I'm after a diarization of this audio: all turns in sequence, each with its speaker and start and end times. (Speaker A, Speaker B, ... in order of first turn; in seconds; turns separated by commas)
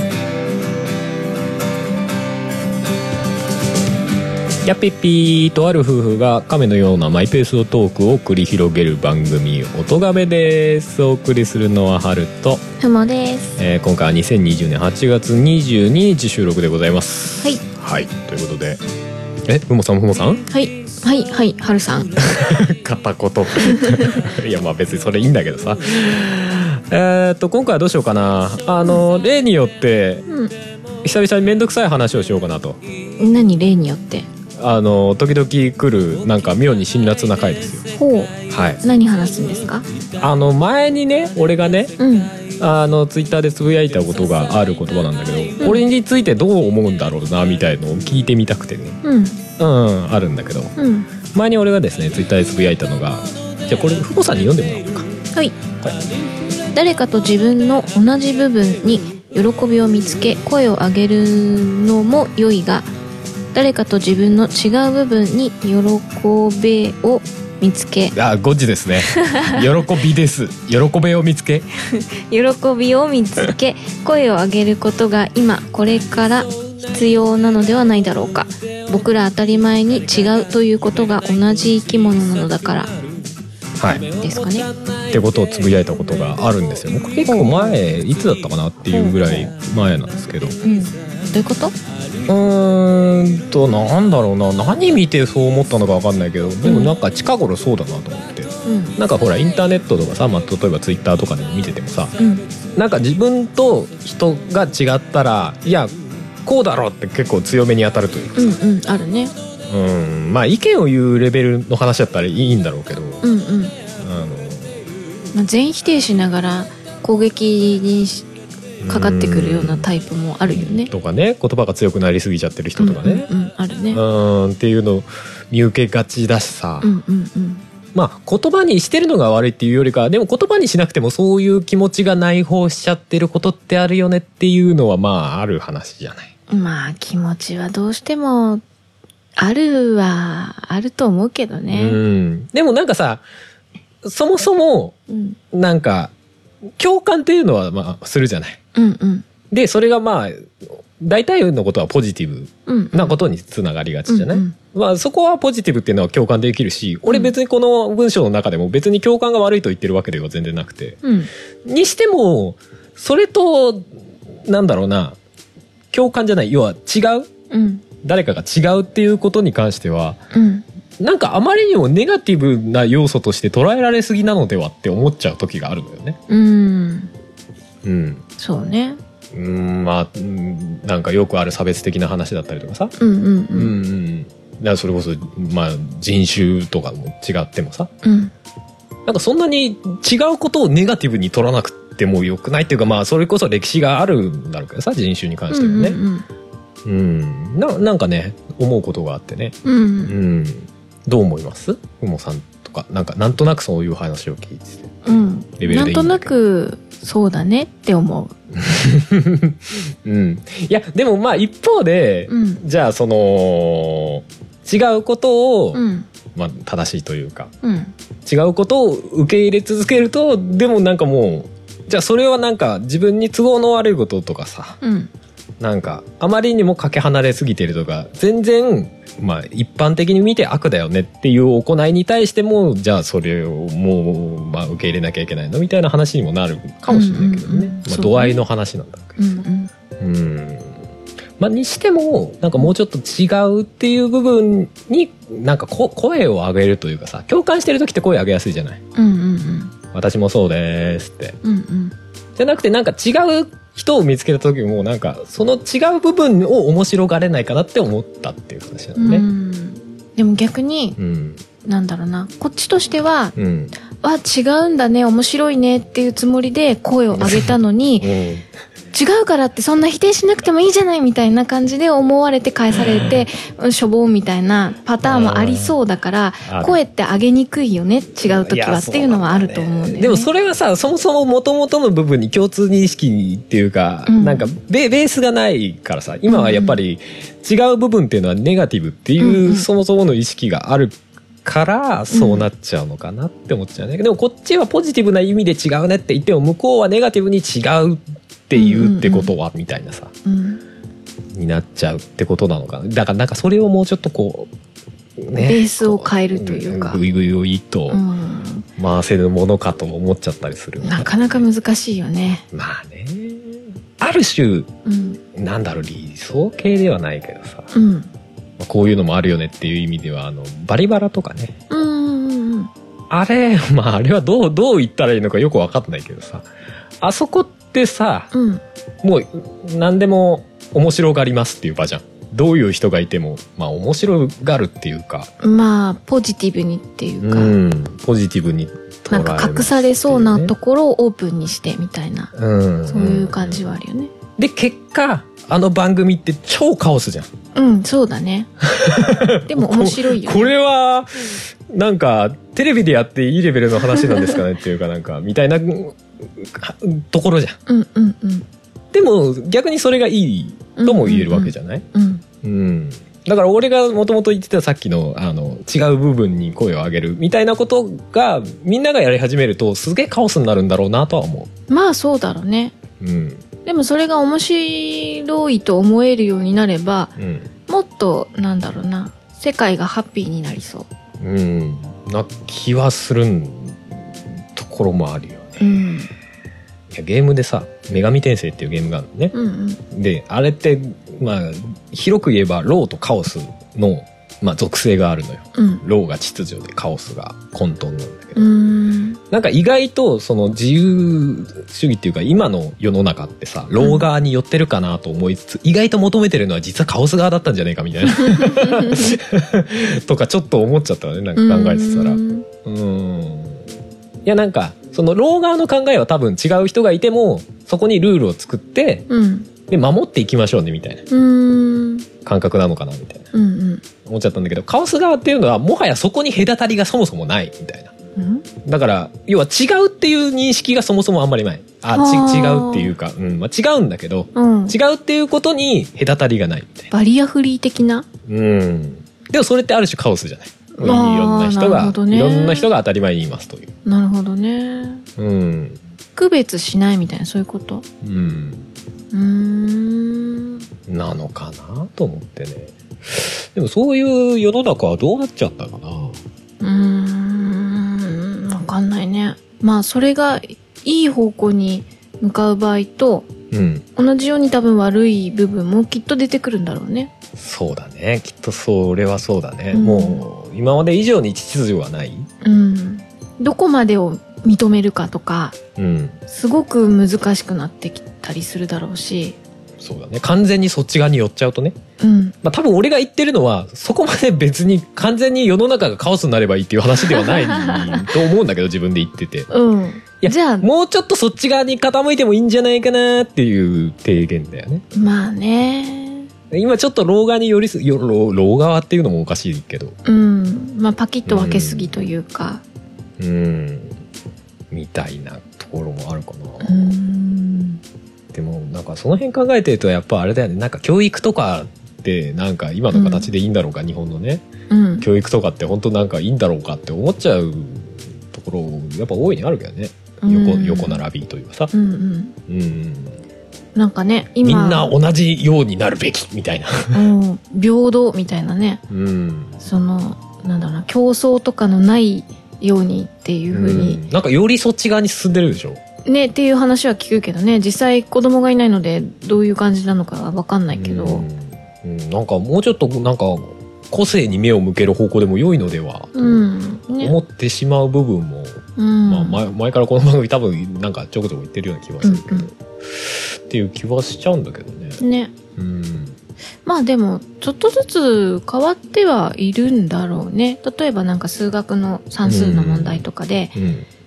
Speaker A: 4.6-12.7, Speaker B: 12.8-13.5, Speaker A: 13.6-18.8, Speaker A: 19.4-20.4, Speaker B: 20.5-22.1, Speaker A: 22.2-30.3, Speaker B: 23.6-24.2, Speaker B: 30.3-30.5, Speaker A: 31.0-32.8, Speaker B: 33.2-34.3, Speaker A: 34.6-37.9, Speaker B: 37.9-39.9, Speaker A: 38.5-38.8, Speaker A: 40.2-41.9, Speaker B: 42.0-42.4, Speaker A: 42.5-49.0, Speaker B: 49.0-49.4, Speaker A: 49.6-50.8, Speaker B: 50.8-51.1, Speaker A: 51.3-55.1, Speaker B: 55.3-55.6, Speaker B: 56.7-62.9, Speaker B: 63.5-68.1, Speaker A: 68.1-71.7, Speaker B: 69.0-69.7, Speaker B: 71.9-82.9, Speaker A: 83.8-84.1, Speaker B: 84.0-84.7, Speaker A: 85.0-90.6, Speaker B: 87.2-87.8, Speaker B: 88.9-89.5, Speaker B: 90.6-91.7, Speaker A: 92.3-102.2, Speaker B: 96.6-96.9, Speaker B: 98.6-99.0, Speaker B: 102.2-102.4, Speaker A: 102.8-105.9, Speaker A: 106.4-108.5, Speaker B: 108.3-109.3, Speaker A: 109.7-113.2, Speaker B: 113.2-113.8, Speaker A: 114.0-114.8, Speaker B: 115.3-118.3, Speaker A: 118.8-119.9, Speaker B: 118.9-120.9, Speaker A: 120.5-123.3, Speaker B: 122.8-124.0, Speaker A: 123.9-126.9, Speaker B: 126.8-127.6, Speaker A: 127.9-136.3, Speaker B: 136.5-138.6, Speaker B: 139.3-142.0, Speaker A: 141.7-143.2, Speaker A: 144.0-144.9, Speaker B: 145.1-145.4, Speaker A: 145.5-146.1, Speaker A: 146.8-148.6, Speaker B: 148.7-149.2, Speaker A: 149.5-161.0, Speaker B: 152.7-153.2, Speaker B: 154.1-154.5, Speaker B: 157.1-157.3, Speaker B: 161.0-161.3, Speaker A: 161.6-163.9, Speaker A: 164.4-165.2, Speaker A: 165.9-167.3, Speaker B: 167.5-167.8, Speaker A: 168.0-170.2, Speaker B: 170.3-170.6, Speaker A: 171.0-176.2, Speaker B: 176.3-177.1, Speaker A: 177.8-178.2, Speaker B: 178.4-179.0, Speaker A: 179.3-182.9, Speaker B: 183.0-183.7, Speaker A: 183.5-187.9, Speaker B: 188.0-188.3, Speaker A: 189.1-196.0, Speaker B: 195.5-196.3, Speaker A: 196.8-206.3, Speaker B: 199.6-200.1, Speaker B: 205.0-208.3, Speaker A: 208.5-215.8, Speaker B: 212.3-212.6, Speaker B: 215.7-216.1, Speaker A: 216.3-217.5, Speaker B: 217.6-217.9, Speaker A: 218.2-224.8, Speaker B: 224.8-225.1, Speaker A: 225.6-239.2, Speaker B: 236.9-238.4, Speaker B: 239.2-239.7, Speaker A: 240.0-240.8, Speaker A: 241.4-248.8, Speaker B: 248.9-249.7, Speaker A: 249.9-251.4, Speaker B: 251.4-251.9, Speaker A: 252.4-259.3, Speaker B: 259.0-261.0, Speaker A: 261.0-261.4, Speaker B: 261.6-263.3, Speaker A: 263.4-263.7, Speaker B: 263.9-268.1, Speaker A: 267.1-268.4, Speaker B: 268.9-280.3, Speaker A: 275.0-275.7, Speaker A: 276.4-276.8, Speaker A: 278.3-300.1, Speaker B: 284.1-284.5, Speaker B: 286.3-286.8, Speaker B: 289.2-289.6, Speaker B: 292.1-292.5, Speaker B: 298.5-299.3, Speaker B: 300.2-300.6, Speaker A: 301.3-304.5, Speaker A: 305.2-308.0, Speaker B: 305.4-307.0, Speaker B: 307.9-308.7, Speaker A: 308.8-311.4, Speaker B: 310.8-312.4, Speaker A: 312.5-314.7, Speaker B: 314.8-315.2, Speaker A: 315.3-317.7, Speaker B: 317.7-318.1, Speaker A: 318.6-321.6, Speaker B: 321.7-322.7, Speaker A: 323.1-326.5, Speaker A: 327.0-328.3, Speaker B: 328.3-328.6, Speaker A: 329.0-335.3, Speaker B: 335.4-337.6, Speaker A: 337.2-340.5, Speaker B: 339.1-342.3, Speaker A: 342.3-343.6, Speaker B: 342.9-344.1, Speaker A: 344.4-347.3, Speaker B: 347.5-348.5, Speaker A: 348.6-357.6, Speaker B: 349.5-350.5, Speaker B: 353.8-354.4, Speaker B: 357.7-358.4, Speaker A: 358.9-361.9, Speaker B: 360.8-362.2, Speaker A: 362.4-371.5, Speaker B: 371.7-372.8, Speaker A: 373.0-373.4, Speaker B: 373.6-377.1, Speaker A: 377.2-377.5, Speaker B: 377.7-380.9, Speaker A: 381.2-384.0, Speaker A: 384.5-385.8, Speaker B: 385.6-386.1, Speaker A: 386.9-389.3, Speaker B: 389.3-389.8, Speaker A: 389.9-398.4, Speaker B: 395.6-395.8, Speaker B: 398.4-399.2, Speaker A: 399.3-413.6, Speaker B: 403.8-404.0, Speaker B: 408.2-409.2, Speaker B: 411.4-412.4, Speaker A: 414.2-419.1, Speaker B: 419.1-419.5, Speaker A: 419.7-421.1, Speaker B: 421.1-422.1, Speaker A: 422.2-423.3, Speaker B: 423.3-423.8, Speaker A: 424.0-427.9, Speaker B: 428.1-428.4, Speaker A: 428.6-436.9, Speaker B: 431.9-432.9, Speaker B: 434.3-434.8, Speaker B: 436.9-438.1, Speaker A: 438.2-443.7, Speaker B: 440.8-442.7, Speaker B: 443.8-445.0, Speaker A: 445.2-445.8, Speaker B: 446.1-447.8, Speaker A: 448.0-448.7, Speaker B: 449.1-450.6, Speaker A: 450.9-456.2, Speaker B: 456.6-463.3, Speaker A: 463.5-463.9, Speaker B: 463.9-467.1, Speaker A: 467.4-472.3, Speaker B: 469.7-470.2, Speaker B: 472.4-475.6, Speaker A: 475.8-476.2, Speaker B: 476.3-479.4, Speaker A: 479.8-481.8, Speaker B: 482.0-482.4, Speaker A: 482.4-489.5, Speaker B: 487.0-488.1, Speaker B: 489.5-490.7, Speaker A: 490.2-494.8, Speaker B: 494.9-496.3, Speaker A: 496.5-499.9, Speaker B: 500.0-502.6, Speaker A: 501.2-501.9, Speaker A: 503.2-504.0, Speaker A: 504.7-506.9, Speaker B: 506.6-507.8, Speaker A: 508.3-514.4, Speaker B: 512.9-513.3, Speaker B: 514.7-515.1, Speaker A: 515.0-521.7, Speaker B: 520.2-521.0, Speaker B: 521.7-522.3, Speaker A: 522.5-523.2, Speaker B: 523.7-524.9, Speaker A: 524.4-527.1, Speaker B: 526.9-528.8, Speaker A: 528.9-529.6, Speaker B: 529.6-534.0, Speaker A: 533.5-535.8, Speaker B: 536.0-541.2, Speaker A: 540.7-546.4, Speaker B: 546.1-547.1, Speaker A: 547.0-555.0, Speaker B: 548.8-549.4, Speaker B: 552.0-552.5, Speaker B: 555.0-555.3, Speaker A: 555.5-556.2, Speaker B: 556.6-563.5, Speaker A: 562.2-563.9